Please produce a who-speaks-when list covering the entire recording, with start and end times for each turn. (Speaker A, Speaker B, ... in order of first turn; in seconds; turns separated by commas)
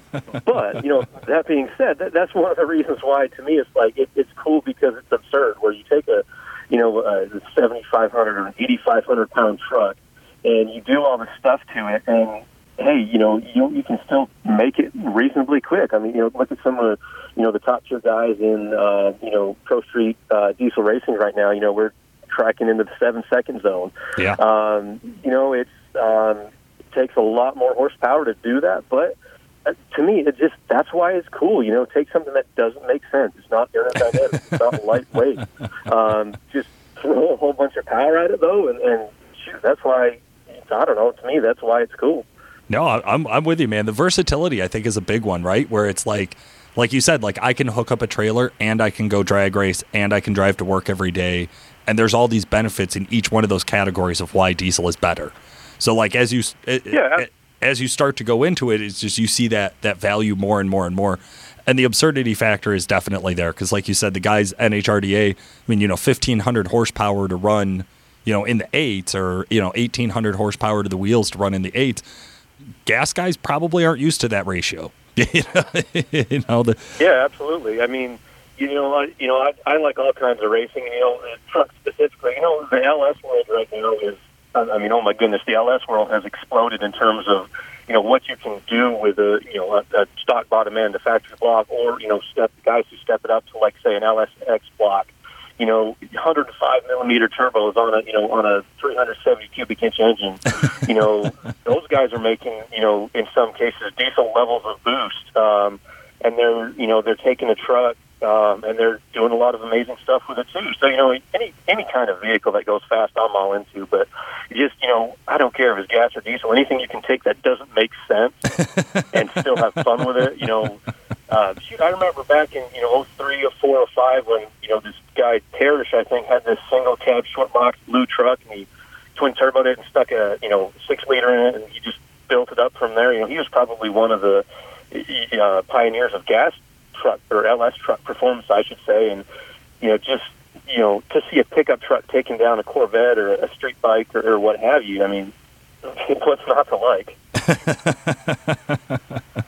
Speaker A: 0.4-42.2, Speaker B: 42.7-72.0, Speaker A: 56.9-57.2, Speaker B: 72.8-77.0, Speaker A: 77.0-118.5, Speaker B: 118.8-119.0, Speaker A: 119.1-139.2, Speaker A: 139.8-147.2, Speaker B: 147.4-149.0